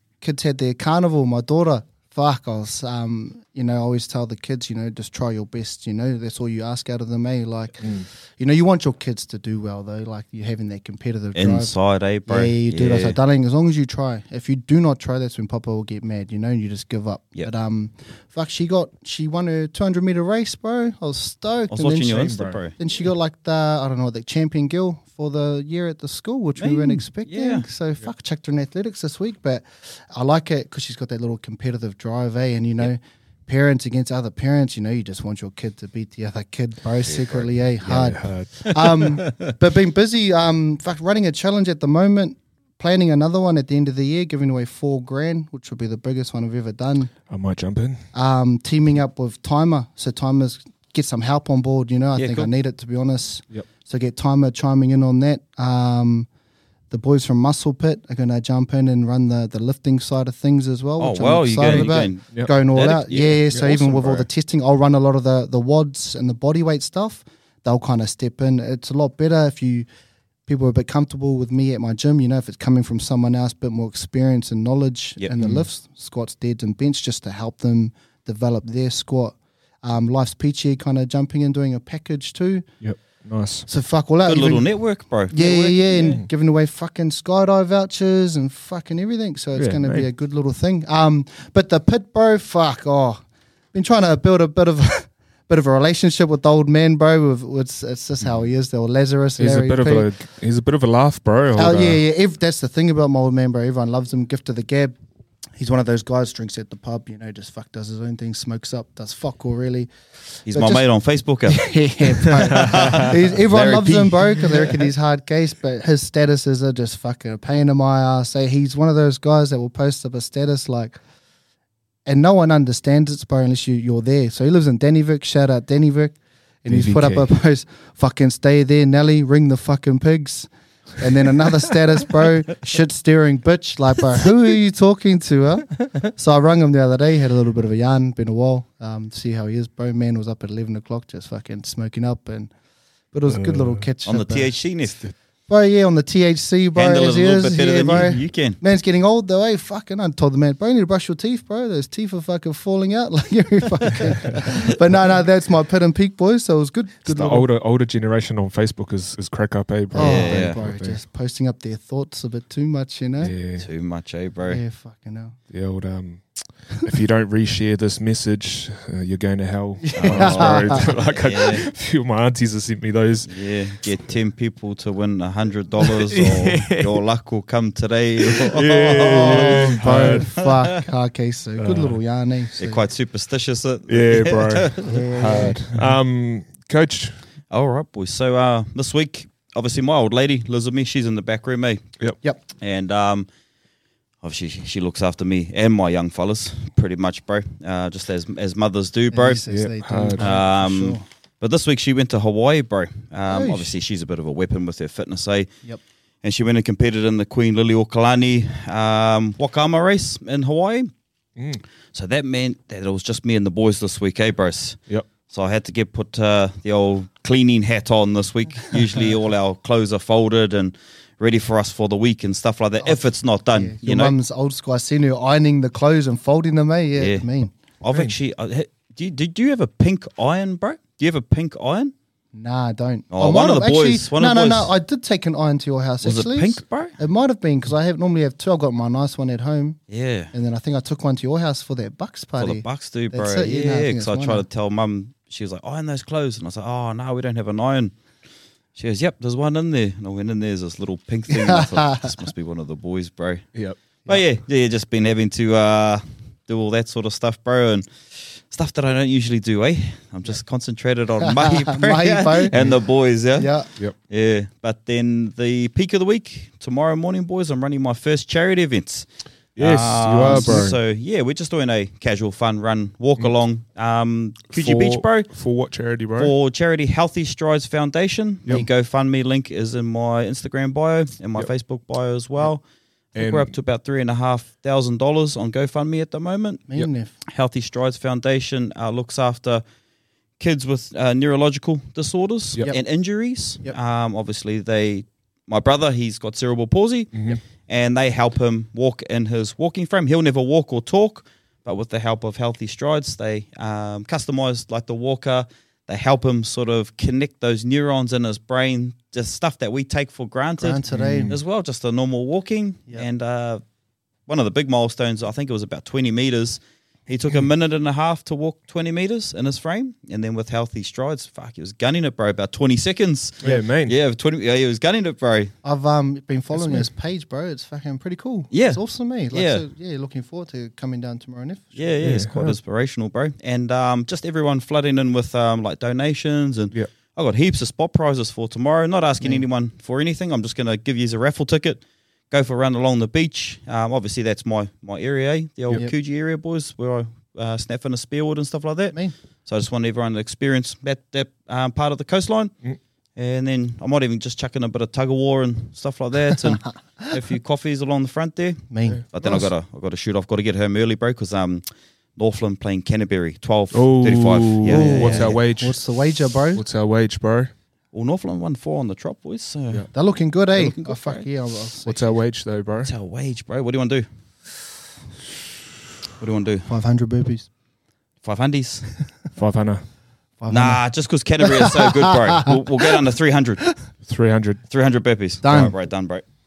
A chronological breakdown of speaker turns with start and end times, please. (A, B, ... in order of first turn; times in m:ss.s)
0:00.2-0:11.7 A
0:11.4-0:13.2 B
0:12.3-0:47.1 A
0:21.7-0:22.8 B
0:22.2-0:22.6 C
0:26.6-0:27.7 B
0:37.1-0:37.4 B
0:37.8-0:38.7 C
0:47.3-0:48.0 C
0:48.1-0:56.3 A
0:52.2-0:52.5 B
0:56.9-1:09.9 A
1:01.0-1:04.3 B
1:01.7-1:02.5 C
1:10.5-1:22.7 A
1:15.4-1:15.7 C
1:22.8-1:23.7 C
1:23.7-1:24.7 A
1:24.3-1:26.2 B
1:25.3-1:33.2 A
1:29.6-1:30.1 C
1:33.7-1:40.1 A
1:39.4-1:42.0 C
1:41.6-1:44.9 A
1:45.6-1:50.8 A
1:50.5-1:54.8 B
1:51.5-2:01.0 A
2:02.1-2:22.5 A
2:06.7-2:07.3 C
2:23.1-2:24.6 A
2:23.3-2:23.8 C
2:24.1-2:25.0 B
2:25.5-2:37.5 A
2:26.8-2:28.6 B
2:37.0-2:41.0 C
2:39.9-2:43.4 A
2:40.0-2:40.6 B
2:43.2-2:43.7 C
2:43.6-2:44.6 B
2:44.5-2:45.4 A
2:45.5-2:53.9 C
2:49.8-2:50.9 A
2:50.0-2:51.7 B
2:53.3-3:00.5 B
2:55.8-2:57.0 C
2:58.2-3:00.3 C
2:59.0-3:02.8 A
3:01.6-3:02.0 C
3:02.6-3:05.8 B
3:03.9-3:07.2 C
3:04.8-3:05.6 A
3:07.5-3:11.9 B
3:12.6-3:13.3 B
3:14.2-3:19.4 B
3:19.1-3:21.0 A
3:19.5-3:20.4 C
3:20.2-3:25.5 B
3:23.3-3:23.8 A
3:26.2-3:30.9 B
3:31.4-3:31.6 C
3:31.9-3:44.2 B
3:43.5-3:47.6 A
3:47.0-3:47.2 B
3:47.8-3:51.9 B
3:52.3-3:59.8 A
3:53.1-3:54.7 B
3:56.0-3:57.0 B
3:59.9-4:00.3 B
4:00.3-4:04.4 A
4:02.4-4:07.9 B
4:08.8-4:13.5 B
4:11.3-4:12.1 A
4:14.1-4:35.3 B
4:21.2-4:22.8 A
4:23.3-4:23.7 A
4:29.6-4:30.8 C
4:30.2-4:30.6 A
4:34.5-4:36.3 C
4:36.2-4:46.7 B
4:43.2-4:43.5 C
4:46.7-4:47.1 A
4:47.3-4:49.6 B
4:50.4-5:13.6 B
4:57.1-4:57.4 C
5:10.6-5:11.4 A
5:10.9-5:11.4 C
5:14.3-5:25.6 B
5:23.4-5:23.9 C
5:25.6-5:31.9 A
5:26.6-5:26.9 C
5:28.5-5:29.6 B
5:31.8-5:52.5 B
5:32.0-5:32.6 C
5:53.2-6:01.6 B
5:58.7-5:59.5 A
6:02.2-6:05.4 B
6:03.7-6:05.8 C
6:04.6-6:06.6 A
6:06.5-6:07.5 C
6:07.9-6:09.9 B
6:09.9-6:12.2 A
6:10.5-6:11.3 B
6:11.9-6:12.9 C
6:12.8-6:14.1 B
6:16.2-6:16.7 B
6:16.7-6:17.5 A
6:18.2-6:18.9 B
6:19.4-6:19.8 C
6:20.4-6:20.8 A
6:20.5-6:23.7 B
6:21.6-6:23.0 A
6:24.1-6:24.6 C
6:24.7-6:26.2 B
6:25.4-6:25.8 A